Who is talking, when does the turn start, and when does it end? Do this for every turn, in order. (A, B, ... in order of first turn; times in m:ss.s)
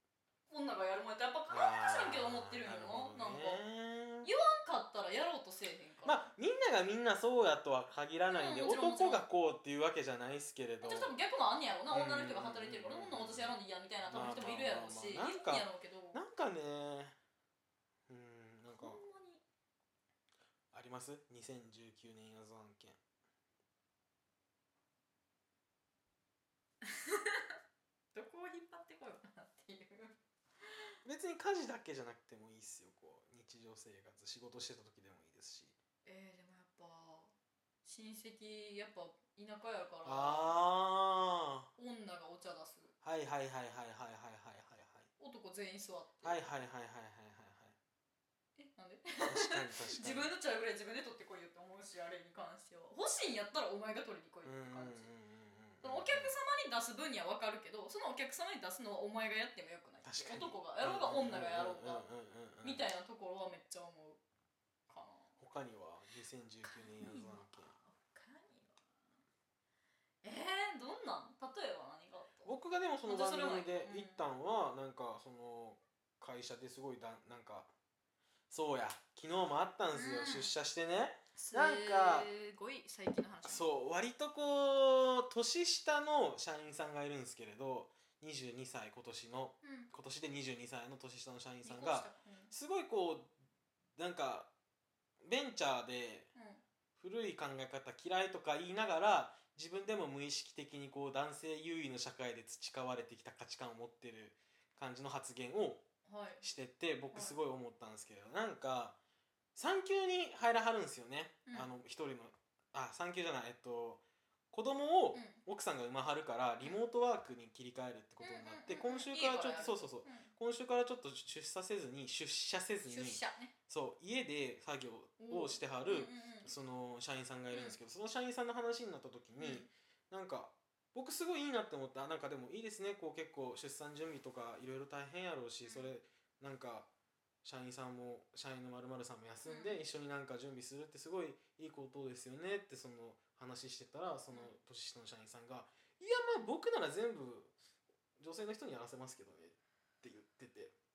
0:00.5-0:03.6 A
0:01.5-0:04.3 B
0:04.2-0:06.2 A
0:06.0-0:11.1 B
0:08.3-0:09.2 A
0:10.8-0:16.2 A
0:11.9-0:17.2 B
0:18.1-0:19.0 B
0:18.7-0:19.4 A
0:20.7-0:23.0 B
0:26.8-0:27.6 A
0:28.1-0:30.2 A
0:31.0-0:35.8 B
0:36.0-0:37.3 A
0:37.8-0:40.6 A
0:40.0-0:41.7 B
0:41.8-0:42.9 A
0:43.0-0:45.1 B
0:45.2-0:46.4 A
0:46.2-0:47.8 B
0:48.6-0:55.1 A
0:49.2-0:50.3 B
0:54.4-0:56.4 B
0:55.8-1:02.1 A
1:00.0-1:02.8 B
1:02.6-1:04.2 A
1:04.9-1:05.3 A
1:05.4-1:07.7 B
1:06.6-1:09.0 A
1:10.2-1:12.5 A
1:12.4-1:17.7 B
1:13.1-1:14.2 A
1:18.5-1:22.3 B
1:19.9-1:20.5 A
1:21.4-1:23.7 A
1:23.4-1:33.3 B
1:29.6-1:29.9 A
1:31.6-1:32.5 A
1:34.0-1:34.5 B
1:35.2-1:36.3 B
1:36.4-1:36.6 A
1:37.0-1:45.9 B
1:46.0-1:46.4 A
1:46.4-1:49.0 B
1:49.6-2:16.9 B
1:55.1-1:55.4 A
1:58.2-2:00.3 A
2:02.8-2:03.5 A
2:05.2-2:06.5 A
2:07.5-2:07.8 A
2:09.4-2:09.7 A
2:15.6-2:15.9 A
2:17.4-2:27.5 B
2:19.5-2:19.8 A
2:28.2-2:30.7 B